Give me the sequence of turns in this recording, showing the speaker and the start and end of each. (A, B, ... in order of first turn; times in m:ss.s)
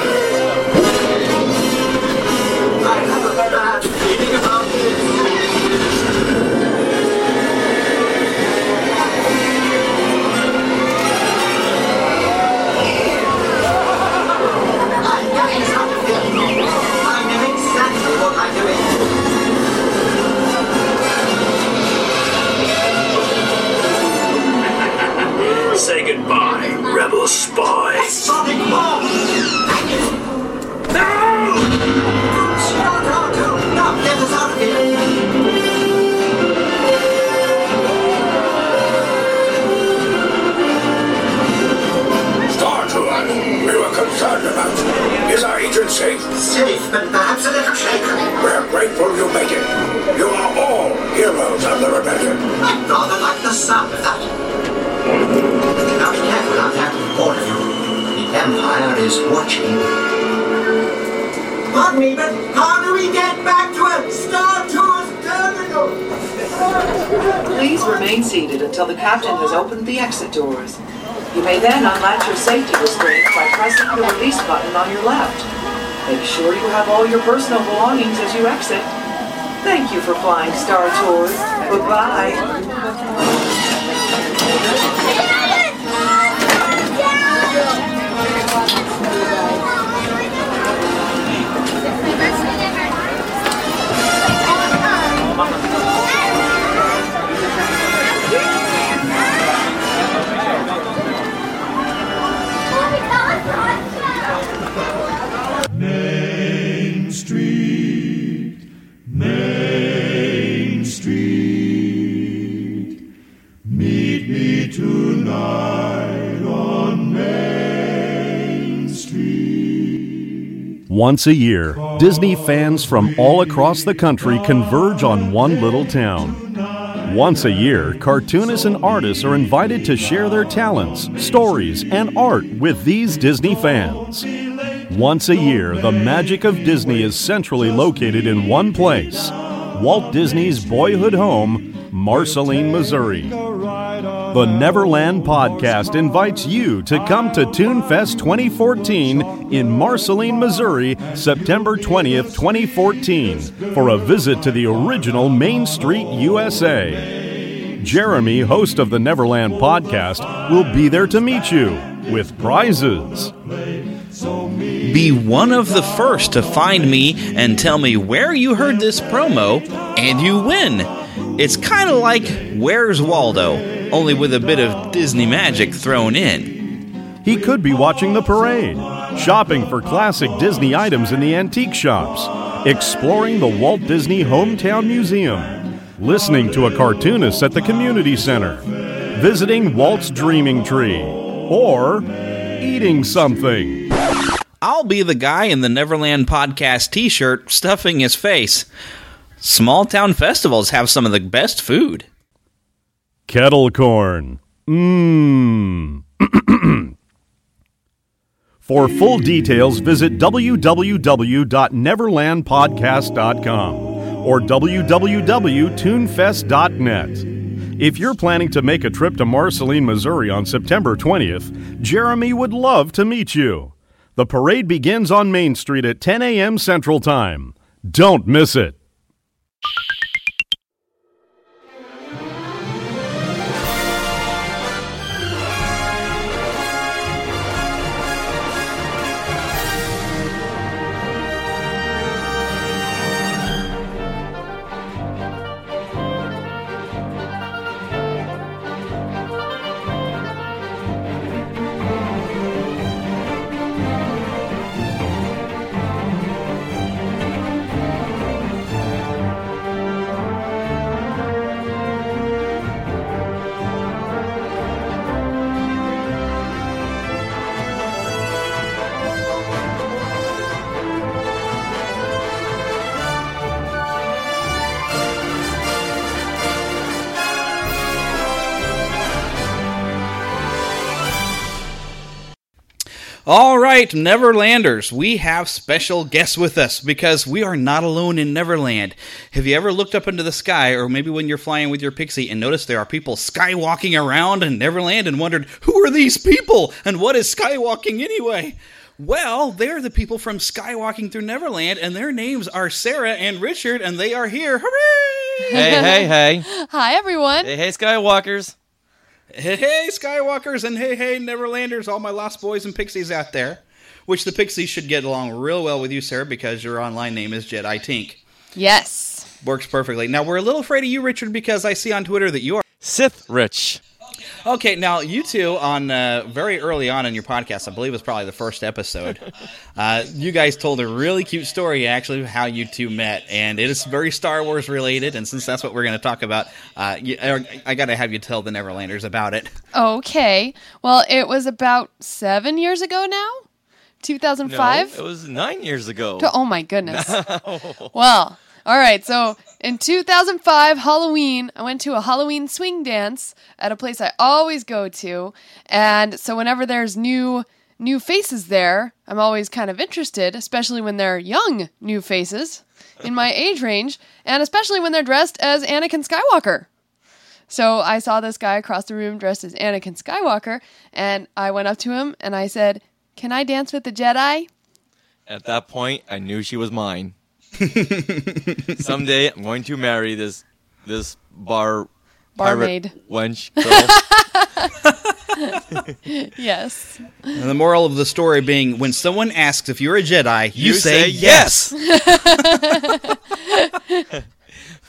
0:02.8-0:05.1 A
0:15.0-0:19.0 A
0:25.7-0:28.1 B
0:27.9-0:30.1 A
0:31.0-0:31.4 A
0:32.2-0:34.9 A
0:42.5-0:46.3 C
0:46.3-0:48.2 A
0:48.3-0:52.5 C
0:52.6-0:54.3 A
0:55.9-0:59.8 A
1:01.7-1:06.0 A
1:07.3-1:10.8 D
1:11.3-1:15.5 D
1:16.0-1:18.9 D
1:19.6-1:22.6 D
2:00.9-2:06.5 E
2:07.0-2:14.2 E
2:14.9-2:23.4 E
2:24.3-2:37.2 E
2:37.8-2:43.3 E
2:44.8-2:56.6 F
2:57.2-3:08.6 E
3:09.1-3:13.9 E
3:14.6-3:18.6 F
3:19.4-3:22.1 F
3:23.3-3:26.9 E
3:28.6-3:48.8 E
4:43.2-5:05.7 F
5:05.5-5:06.5 G
5:05.5-5:07.5 H
5:07.4-5:08.5 G
5:09.3-5:18.2 F
5:18.5-5:19.3 H
5:19.4-5:22.6 F
5:22.8-5:23.8 G
5:24.4-5:29.2 F
5:29.8-5:39.5 F
5:39.7-5:43.4 H
5:44.0-5:45.0 H
5:44.4-5:48.0 G
5:46.2-5:47.2 H
5:47.9-6:06.7 H
6:07.5-6:14.5 H
6:15.3-6:17.1 G
6:17.6-6:18.6 F
6:18.8-6:24.0 G
6:22.4-6:23.0 H
6:23.6-6:24.7 H
6:25.4-6:27.4 H
6:27.3-6:32.9 F
6:30.5-6:31.7 G
6:31.7-6:34.0 H